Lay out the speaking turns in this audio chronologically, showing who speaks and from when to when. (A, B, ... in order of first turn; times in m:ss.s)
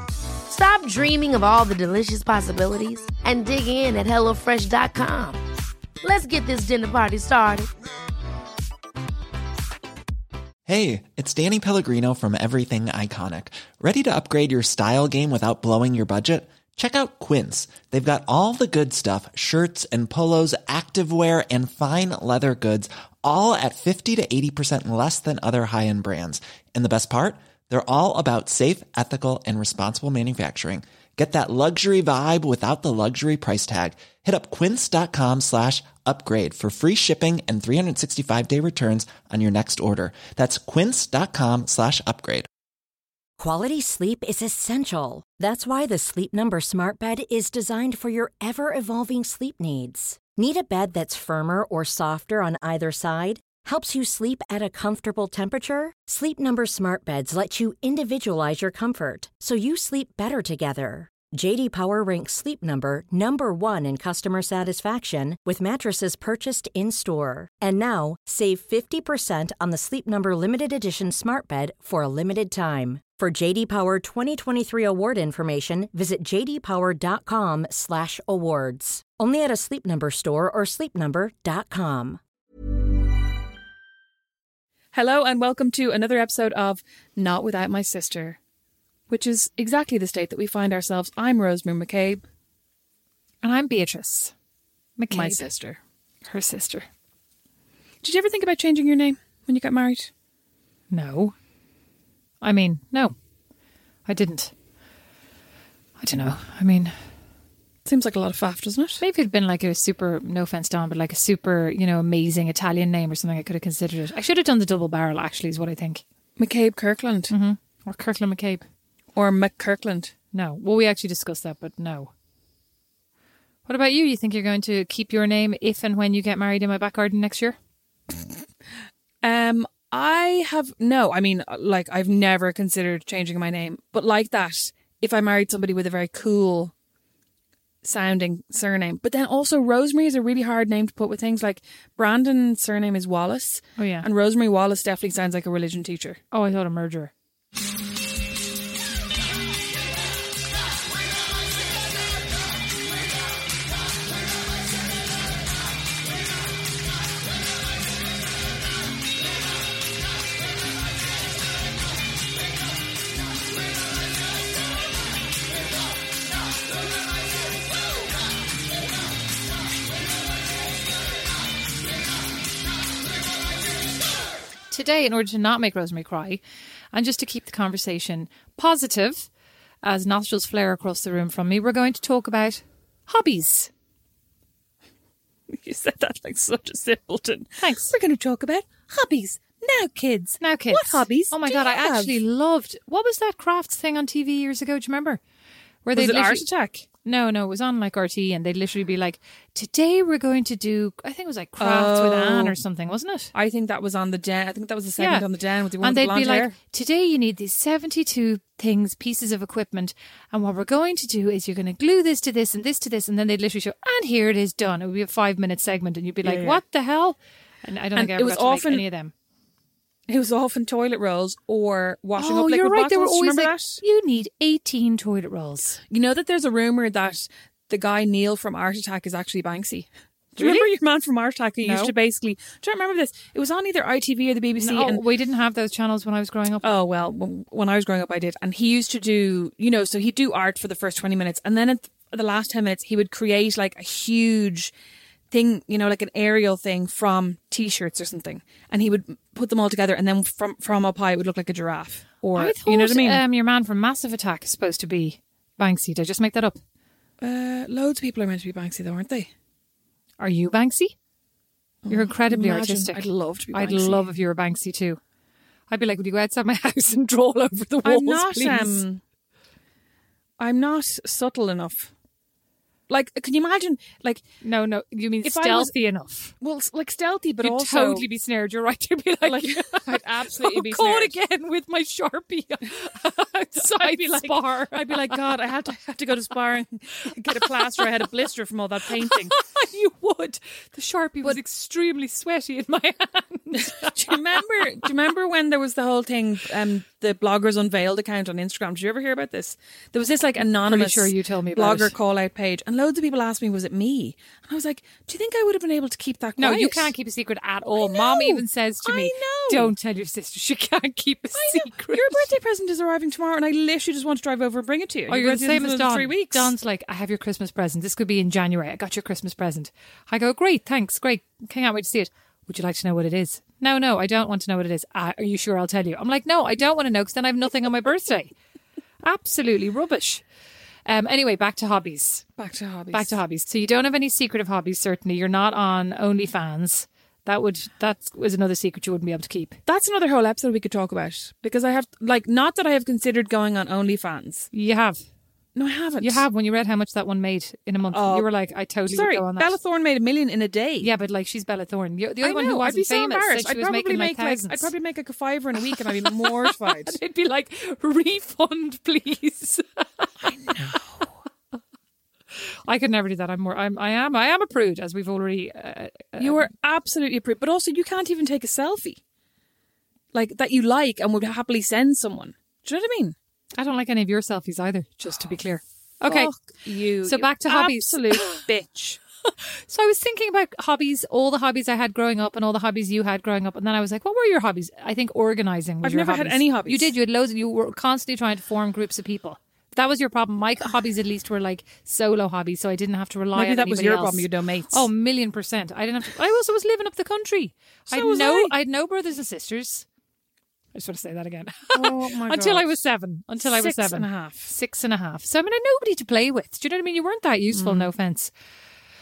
0:00.5-0:05.4 A
0:06.0-0:07.7 A
0:10.6-0:42.5 B
0:43.4-1:22.2 C
1:24.9-1:28.4 D
1:29.1-1:32.2 D
1:33.4-1:34.3 E
1:35.0-1:35.4 E
1:35.1-1:35.8 D
1:36.2-1:36.8 E
1:38.0-1:40.1 D
1:40.9-1:41.3 E
1:42.4-1:43.1 E
1:44.0-1:44.5 E
1:46.0-1:46.9 E
1:47.8-1:49.0 D
1:49.0-1:56.0 E
1:56.4-1:57.3 D
1:57.3-1:58.6 E
1:59.1-2:00.1 D
2:00.3-2:02.1 E
2:03.7-2:07.6 E
2:09.2-2:16.7 D
2:17.8-2:26.2 D
2:23.8-2:24.0 E
2:26.3-2:27.1 E
2:54.7-2:56.4 E
2:56.9-2:59.3 E
2:59.8-3:03.7 E
3:05.5-3:12.2 D
3:07.6-3:07.9 E
3:10.4-3:15.2 E
3:15.8-3:16.4 E
3:15.9-3:16.8 D
3:17.0-3:23.3 E
3:21.6-3:22.6 D
3:23.3-3:26.5 D
3:25.0-3:25.2 E
3:25.8-3:39.1 E
3:36.2-3:36.6 D
3:38.0-3:38.8 D
3:40.1-3:43.8 D
3:42.2-3:45.8 E
3:45.9-3:55.0 D
3:50.4-3:50.7 E
3:51.6-3:51.9 E
3:54.6-3:56.7 E
3:56.6-4:04.7 D
4:05.3-4:13.2 D
4:12.3-4:16.6 E
4:17.2-4:19.3 D
4:20.2-4:20.9 E
4:21.8-4:24.0 D
4:21.9-4:25.0 E
4:25.7-4:28.8 E
4:27.8-4:29.0 D
4:30.4-4:31.9 D
4:32.9-4:34.2 D
4:34.4-4:36.3 E
4:35.2-4:35.7 D
4:36.4-4:38.1 D
4:37.4-4:45.4 E
4:39.3-4:41.2 D
4:43.6-4:49.4 D
4:49.0-4:54.2 E
4:53.6-5:06.9 D
5:00.6-5:01.9 E
5:06.4-5:12.3 E
5:07.8-5:09.7 D
5:11.3-5:16.5 D
5:15.1-5:28.3 E
5:29.0-5:30.2 E
5:30.8-5:32.2 E
5:32.4-5:33.1 D
5:32.9-5:39.6 E
5:39.6-5:44.5 D
5:44.5-5:45.0 E
5:45.5-5:46.2 D
5:46.0-5:49.5 E
5:47.9-5:48.3 D
5:48.9-5:50.9 D
5:50.8-5:54.7 E
5:52.2-5:57.0 D
5:55.7-6:00.3 E
6:00.2-6:01.1 D
6:02.7-6:06.5 E
6:06.2-6:09.0 D
6:10.1-6:13.2 D
6:13.6-6:16.3 E
6:16.0-6:19.0 D
6:17.0-6:18.4 E
6:19.7-6:39.8 E
6:25.8-6:26.9 D
6:33.3-6:34.9 D
6:37.9-6:38.5 D
6:40.7-6:48.3 E
6:41.7-6:42.8 D
6:43.4-6:44.5 D
6:47.5-6:47.9 D